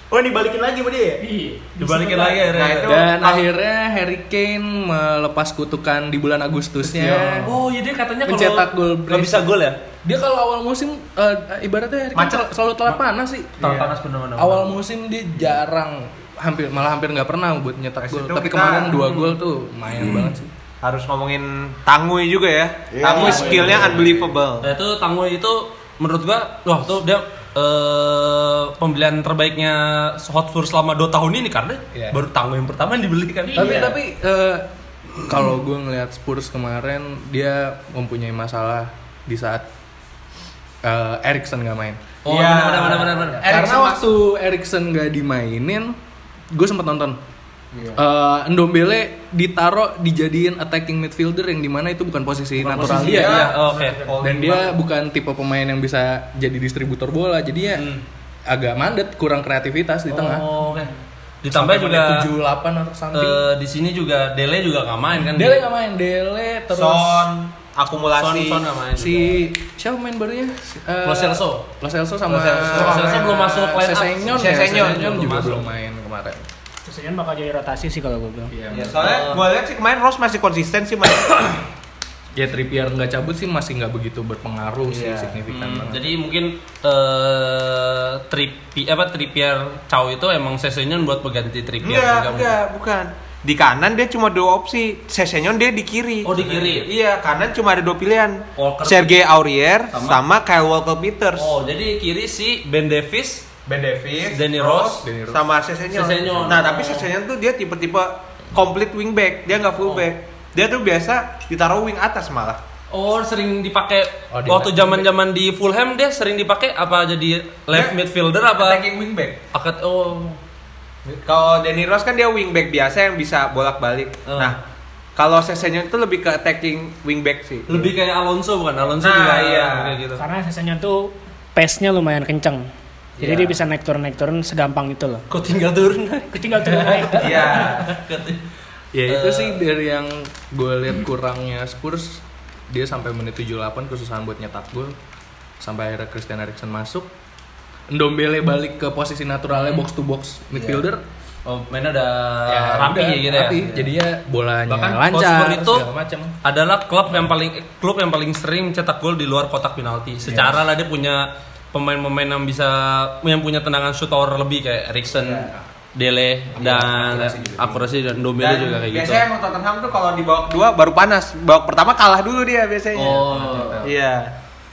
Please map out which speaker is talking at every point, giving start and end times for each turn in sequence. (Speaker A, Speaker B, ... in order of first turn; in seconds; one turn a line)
Speaker A: 0.1-1.2
Speaker B: 1.2-2.5
Speaker C: 1.8-3.0
Speaker D: 2.5-3.5
Speaker E: 2.9-7.6
Speaker C: 7.4-9.8
Speaker E: 8.2-9.5
Speaker E: 10.0-13.8
Speaker D: 12.2-12.4
Speaker C: 13.6-14.8
Speaker D: 13.6-13.9
Speaker E: 14.4-20.5
Speaker D: 18.0-19.0
Speaker C: 19.0-19.4
Speaker D: 20.8-24.7
Speaker A: 22.9-23.9
Speaker E: 23.2-24.1
Speaker B: 23.2-23.6
Speaker C: 23.2-24.1
Speaker C: 24.6-33.8
Speaker E: 31.9-32.2
Speaker B: 33.5-33.9
Speaker E: 33.5-39.6
Speaker D: 33.6-34.0
Speaker E: 40.8-42.0
Speaker C: 42.2-43.5
Speaker D: 42.3-44.1
Speaker E: 43.5-46.0
Speaker E: 46.5-47.2
Speaker D: 47.7-48.0
Speaker E: 48.0-53.5
Speaker C: 52.6-54.0
Speaker D: 52.8-54.8
Speaker E: 54.2-57.9
Speaker C: 57.8-58.0
Speaker E: 58.5-60.5
Speaker C: 60.1-62.3
Speaker E: 61.5-63.5
Speaker C: 63.1-65.7
Speaker E: 65.2-67.3
Speaker D: 66.7-68.7
Speaker C: 68.2-69.4
Speaker E: 69.0-76.4
Speaker C: 71.0-71.6
Speaker D: 72.3-73.4
Speaker C: 72.5-75.6
Speaker D: 74.3-75.4
Speaker B: 76.8-78.5
Speaker E: 78.5-79.2
Speaker D: 78.7-81.6
Speaker C: 78.9-79.5
Speaker E: 82.3-86.0
Speaker D: 84.9-85.4
Speaker C: 85.5-92.6
Speaker D: 91.8-101.5
Speaker C: 96.2-96.9
Speaker C: 98.6-99.2
Speaker C: 99.9-100.2
Speaker C: 101.4-103.5
Speaker D: 103.7-112.6
Speaker C: 104.3-105.0
Speaker E: 105.0-105.4
Speaker C: 105.9-107.1
Speaker C: 109.8-110.1
Speaker C: 112.9-118.8
Speaker E: 114.3-115.1
Speaker D: 117.7-119.4
Speaker C: 119.5-120.4
Speaker D: 121.2-124.6
Speaker C: 124.3-124.5
Speaker D: 125.2-127.9
Speaker C: 127.7-130.2
Speaker D: 129.0-130.0
Speaker B: 130.2-132.7
Speaker D: 133.2-133.5
Speaker B: 133.2-135.3
Speaker C: 135.3-138.4
Speaker B: 136.3-137.7
Speaker E: 136.8-137.2
Speaker D: 137.1-137.9
Speaker E: 138.9-145.0
Speaker C: 139.1-139.6
Speaker E: 145.6-147.1
Speaker E: 147.9-151.0
Speaker C: 149.5-149.8
Speaker C: 151.4-153.9
Speaker E: 152.5-156.3
Speaker C: 154.7-155.9
Speaker C: 156.4-169.3
Speaker E: 160.2-160.6
Speaker D: 165.2-165.5
Speaker E: 166.5-167.9
Speaker D: 168.4-173.2
Speaker C: 172.9-173.9
Speaker E: 173.2-173.9
Speaker D: 173.8-174.3